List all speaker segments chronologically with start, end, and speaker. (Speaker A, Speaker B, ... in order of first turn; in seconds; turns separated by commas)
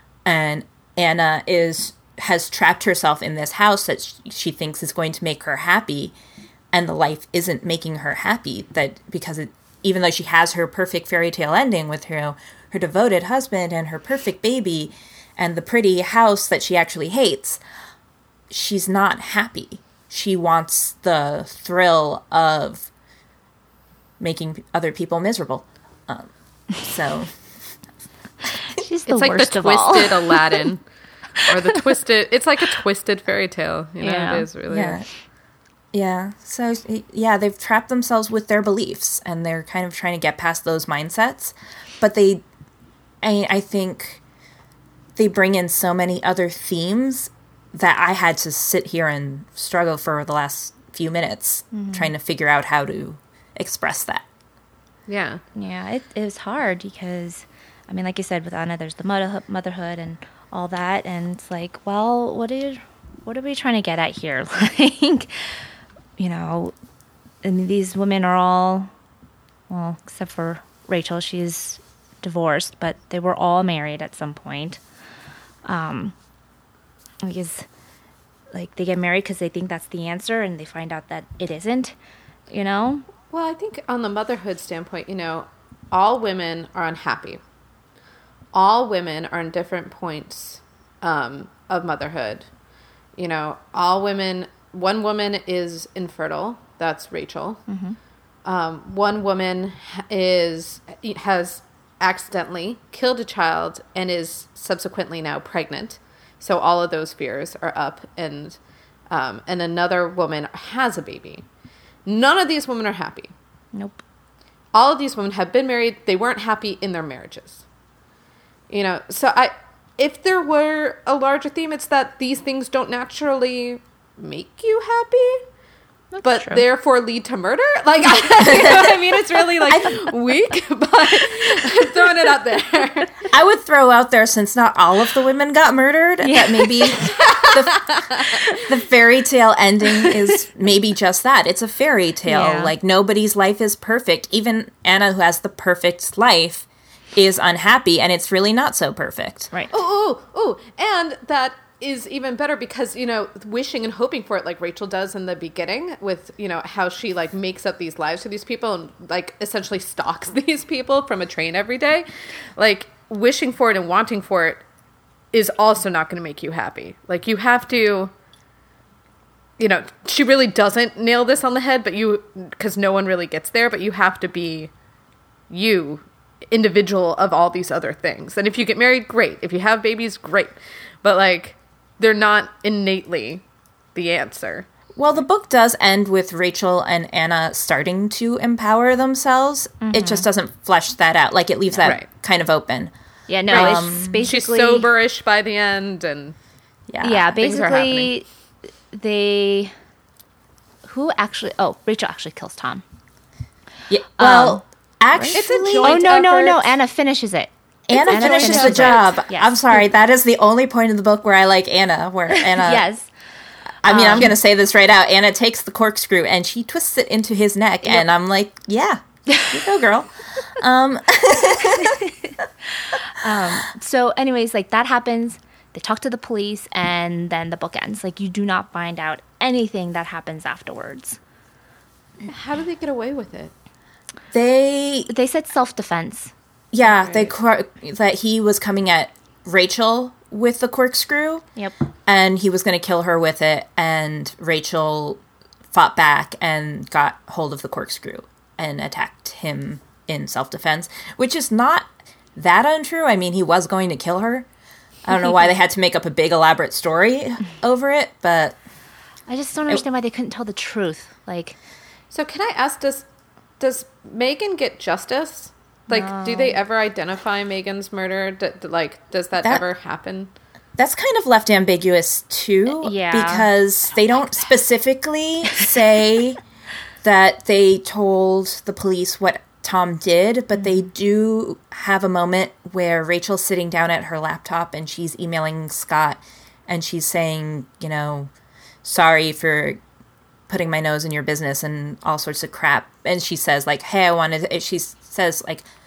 Speaker A: 0.3-6.1, Speaker A: 6.7-17.6, Speaker A: 18.5-22.9, Speaker A: 24.2-27.3, Speaker B: 28.6-30.7, Speaker C: 29.1-30.8, Speaker C: 31.4-35.0, Speaker B: 34.0-34.5, Speaker A: 34.7-35.1, Speaker A: 35.9-42.4, Speaker A: 43.2-44.2, Speaker A: 45.2-54.2, Speaker B: 51.7-52.1, Speaker C: 55.1-55.4, Speaker B: 55.5-65.6, Speaker B: 66.2-66.7, Speaker B: 67.4-68.9, Speaker B: 69.7-74.8, Speaker B: 75.7-76.1, Speaker B: 77.2-77.7, Speaker B: 78.5-81.9, Speaker B: 82.5-83.0, Speaker C: 83.3-87.4, Speaker C: 88.5-92.5, Speaker C: 93.2-97.6, Speaker B: 97.7-98.0, Speaker C: 98.5-108.6, Speaker C: 109.1-111.4, Speaker C: 112.0-113.3, Speaker B: 113.7-114.0, Speaker C: 114.7-117.6, Speaker C: 118.7-125.4, Speaker B: 126.1-126.6, Speaker C: 126.2-133.2, Speaker A: 128.4-129.0, Speaker A: 129.7-130.0, Speaker A: 133.3-149.5, Speaker B: 136.2-137.0, Speaker C: 136.9-138.5, Speaker B: 142.3-142.7, Speaker C: 149.7-162.1, Speaker C: 162.6-164.6, Speaker C: 165.3-168.1, Speaker C: 169.6-174.7, Speaker C: 175.5-183.4, Speaker C: 183.9-184.7, Speaker A: 185.0-192.9, Speaker B: 189.8-190.3, Speaker B: 193.3-194.9, Speaker A: 193.5-194.3, Speaker C: 193.5-196.3, Speaker A: 196.9-197.3, Speaker B: 197.0-198.2, Speaker C: 197.4-198.1, Speaker B: 198.9-199.7, Speaker B: 200.8-202.8, Speaker A: 203.9-206.2, Speaker B: 204.2-204.6, Speaker B: 205.1-209.8, Speaker C: 205.3-206.7, Speaker A: 207.9-212.8, Speaker C: 207.9-209.2, Speaker B: 212.4-213.1, Speaker A: 213.8-222.0, Speaker B: 213.9-214.3, Speaker B: 221.7-222.3, Speaker B: 222.9-231.2, Speaker C: 232.3-233.5, Speaker A: 234.3-235.1, Speaker B: 235.1-236.3, Speaker A: 236.7-241.4, Speaker C: 237.0-237.3, Speaker A: 242.1-245.2, Speaker A: 245.7-254.5, Speaker A: 255.1-258.6, Speaker B: 259.3-261.6, Speaker C: 262.1-263.1, Speaker C: 263.6-270.3, Speaker B: 265.9-266.6, Speaker A: 270.8-276.4, Speaker B: 272.7-273.5, Speaker A: 277.0-288.3, Speaker B: 280.6-280.8, Speaker A: 288.8-289.8, Speaker A: 290.5-295.6